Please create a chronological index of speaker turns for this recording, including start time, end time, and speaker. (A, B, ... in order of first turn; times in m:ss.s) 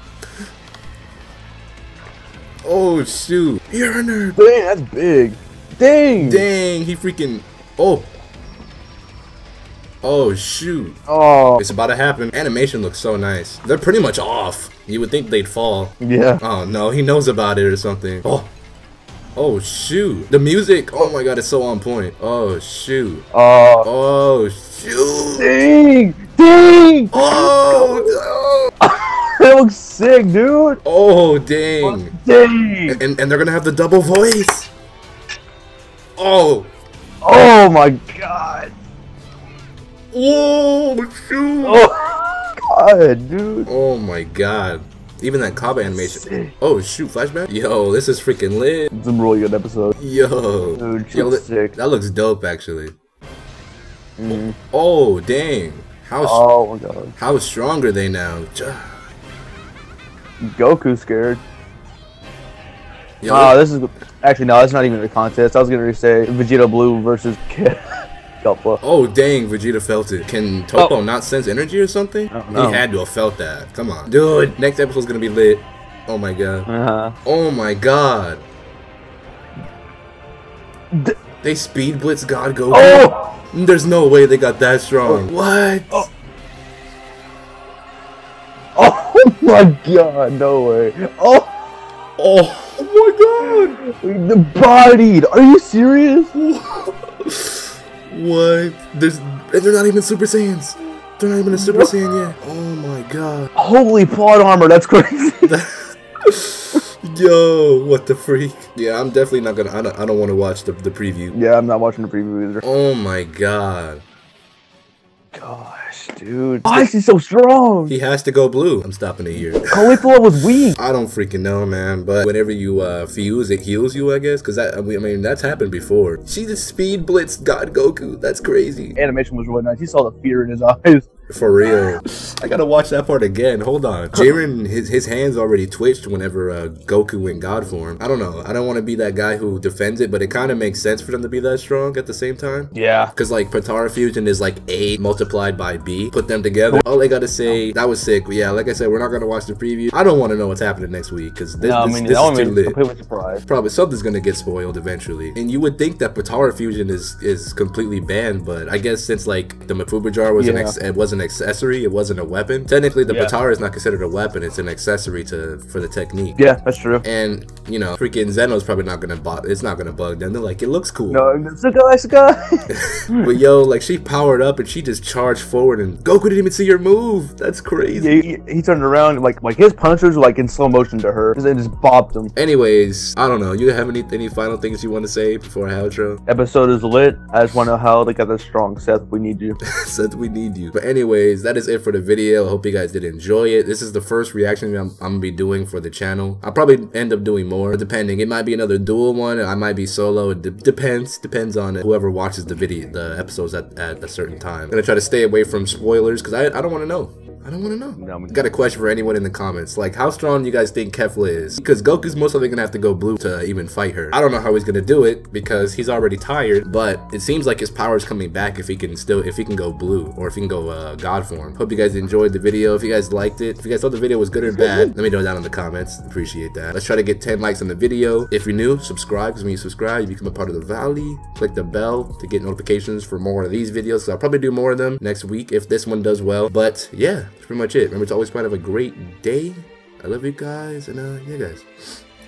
0:02.6-0:04.4 A
0:04.4-0:06.4 B
0:06.2-0:08.1 A
0:10.0-0:11.0 A
0:11.1-0:11.6 B
0:11.6-0:18.5 A
0:16.0-0:16.4 B
0:19.4-0:23.3 A
0:23.3-0:23.9 B
0:23.8-0:25.5 A
0:25.4-0:28.2 B
0:27.1-0:28.7 A
0:28.8-0:30.8 B
0:30.8-0:32.2 A
0:31.8-0:33.0 B
0:32.9-0:34.7 A
0:36.2-0:36.7 A
0:37.2-0:38.7 B
0:40.1-0:41.9 A
0:41.6-0:43.7 B
0:43.7-0:48.9 A
0:46.0-0:46.5 B
0:48.9-0:50.0 B
0:50.0-0:52.9 A
0:50.8-0:51.8 B
0:54.2-0:54.6 B
0:54.3-0:56.4 A
0:56.2-0:57.1 B
0:57.2-0:58.9 A
1:00.4-1:01.4 B
1:03.2-1:03.6 A
1:03.3-1:08.8 B
1:08.8-1:16.7 A
1:12.3-1:12.8 B
1:16.7-1:17.2 B
1:17.2-1:18.4 A
1:21.4-1:26.1 A
1:22.7-1:23.4 B
1:28.8-1:31.8 B
1:32.2-1:33.8 A
1:33.8-1:36.3 B
1:36.4-1:43.5 A
1:41.5-1:41.9 B
1:43.6-1:45.6 B
1:45.4-1:51.4 A
1:51.3-1:52.6 B
1:52.6-1:54.0 A
1:55.3-1:57.9 B
1:57.9-1:59.8 A
1:59.7-2:00.8 B
2:00.8-2:09.0 A
2:09.0-2:11.1 B
2:11.3-2:32.8 A
2:22.7-2:23.1 B
2:31.6-2:33.4 B
2:33.5-2:46.4 A
2:40.4-2:40.8 B
2:43.1-2:43.3 B
2:46.4-2:47.0 B
2:47.0-2:51.3 A
2:51.1-2:53.3 B
2:52.7-2:58.2 A
2:57.9-3:02.3 B
3:02.4-3:06.2 A
3:06.3-3:09.6 B
3:09.6-4:02.0 A
3:28.0-3:28.5 B
3:44.5-3:44.9 B